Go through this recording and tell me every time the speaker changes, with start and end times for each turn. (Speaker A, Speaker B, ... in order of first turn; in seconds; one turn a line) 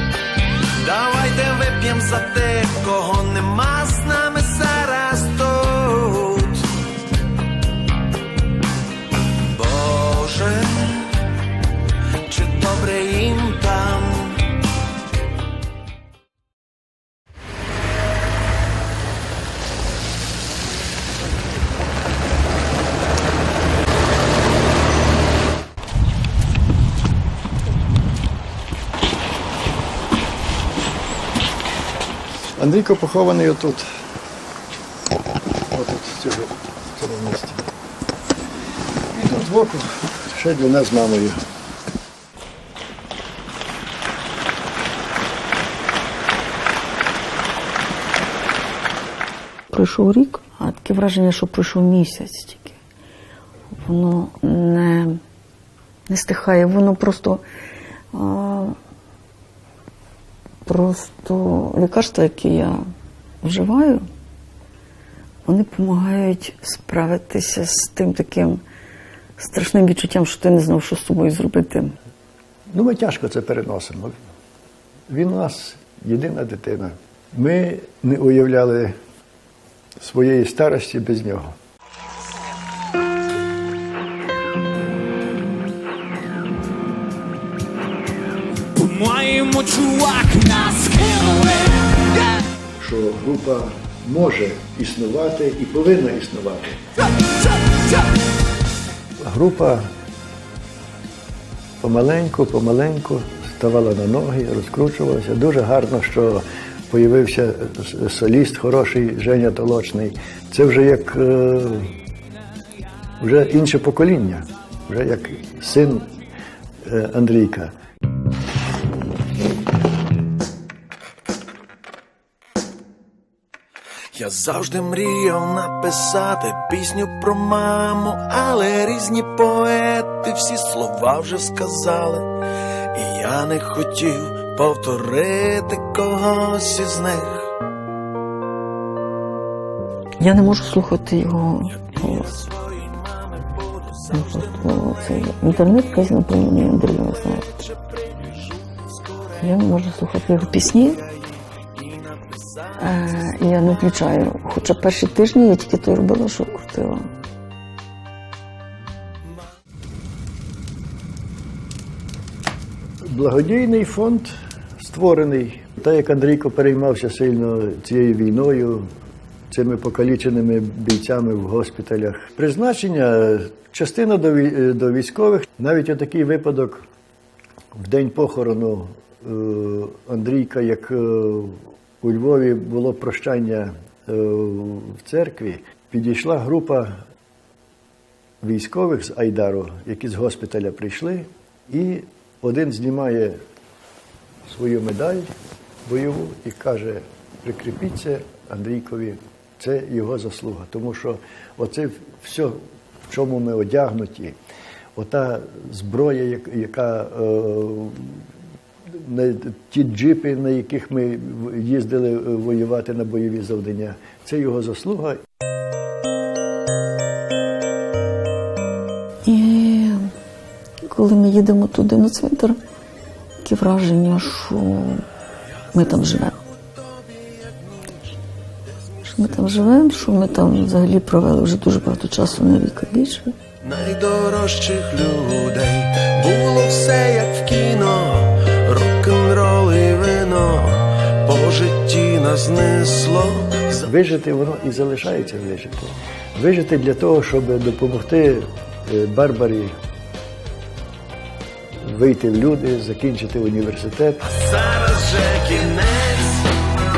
Speaker A: 0.7-6.8
Speaker A: 9.4-11.3
Speaker A: 12.2-14.6
Speaker B: 32.6-33.9
Speaker B: 35.7-37.7
Speaker B: 39.1-41.4
Speaker C: 49.7-52.8
Speaker C: 53.7-55.2
Speaker C: 56.1-57.4
Speaker C: 58.1-58.8
Speaker C: 60.6-62.8
Speaker C: 63.4-64.0
Speaker C: 65.5-68.6
Speaker C: 69.4-71.9
Speaker B: 72.7-74.2
Speaker B: 75.1-78.9
Speaker B: 80.0-81.5
Speaker D: 88.7-92.2
Speaker B: 92.8-96.8
Speaker B: 99.2-99.9
Speaker B: 101.8-112.0
Speaker B: 113.2-116.1
Speaker B: 116.8-117.7
Speaker A: 124.1-132.3
Speaker A: 132.9-137.5
Speaker C: 140.2-142.3
Speaker A: 142.0-145.3
Speaker C: 144.1-147.6
Speaker A: 147.4-149.4
Speaker C: 149.4-151.0
Speaker A: 150.7-153.6
Speaker C: 152.8-157.1
Speaker B: 163.0-168.9
Speaker B: 169.5-176.8
Speaker B: 177.7-187.0
Speaker B: 188.4-193.4
Speaker B: 194.4-195.3
Speaker B: 195.8-204.3
Speaker B: 204.9-208.2
Speaker B: 208.9-215.2
Speaker C: 219.2-220.1
Speaker C: 220.8-222.6
Speaker C: 223.4-225.0
Speaker C: 225.7-226.4
Speaker A: 226.7-228.0
Speaker C: 229.0-233.4
Speaker A: 233.6-243.9
Speaker B: 243.8-249.7
Speaker B: 251.8-254.2
Speaker A: 254.2-256.6